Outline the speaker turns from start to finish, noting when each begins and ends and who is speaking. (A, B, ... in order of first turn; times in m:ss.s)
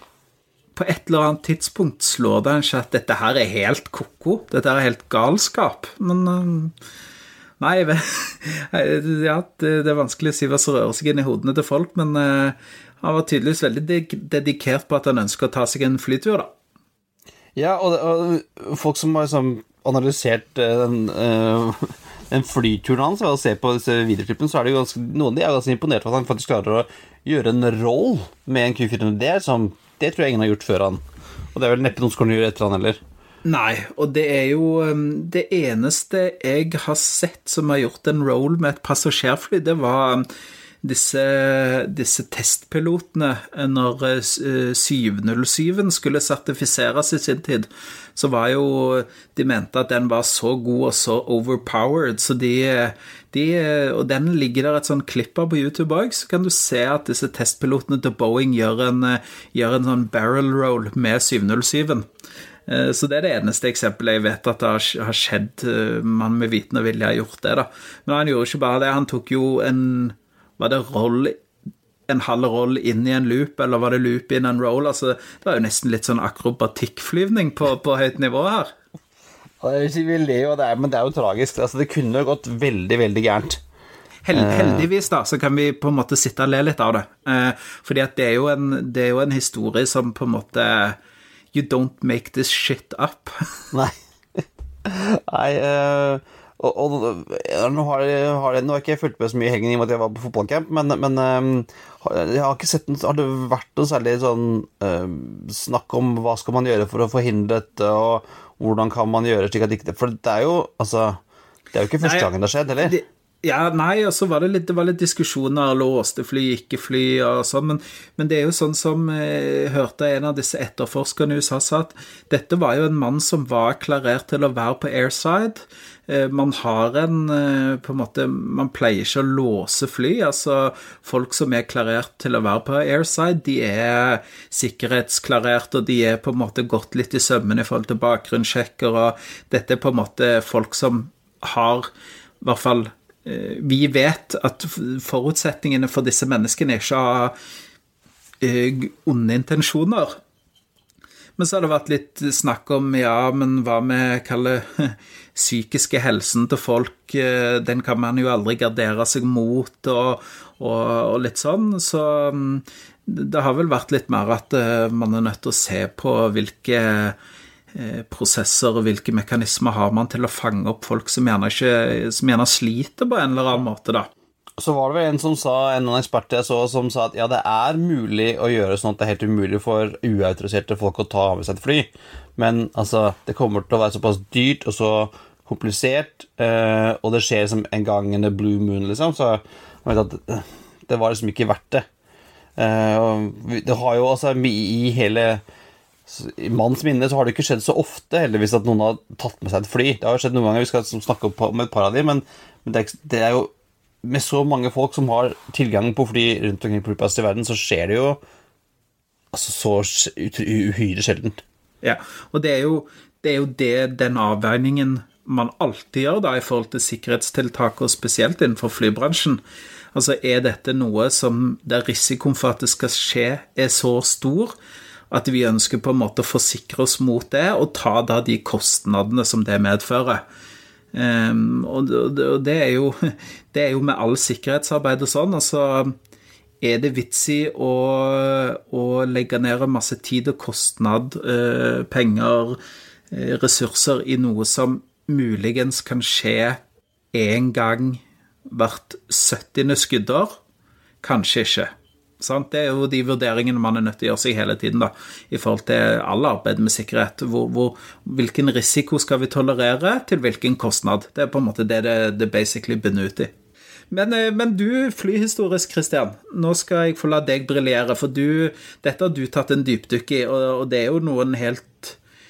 0:00.8-0:06.7 A
0:07.6-0:16.5 A
0:17.6-0:31.0 B
0:31.5-0:33.0 B
0:33.4-0:40.3 A
0:40.8-1:02.1 A
1:02.7-1:11.4 A
1:12.1-1:18.7 A
1:19.6-1:23.6 B
1:24.2-1:31.0 A
1:24.3-1:24.9 B
1:31.5-1:33.4 A
1:33.7-1:51.2 B
1:51.7-1:53.0 B
1:52.0-1:52.3 A
1:52.8-2:21.9 A
2:22.4-2:27.4 A
2:28.4-2:30.2 A
2:31.4-2:47.2 A
2:47.7-2:54.1 A
2:54.6-3:11.9 B
3:12.6-3:15.4 B
3:16.1-3:23.5 B
3:24.0-3:28.2 B
3:29.3-3:31.4 B
3:31.8-3:39.4 A
3:39.9-3:44.6 A
3:45.1-3:50.2 A
3:50.9-3:56.0 A
3:56.6-4:02.6 A
4:03.1-4:06.6 A
4:07.1-4:10.4 A
4:11.0-4:23.3 A
4:23.9-4:32.0 A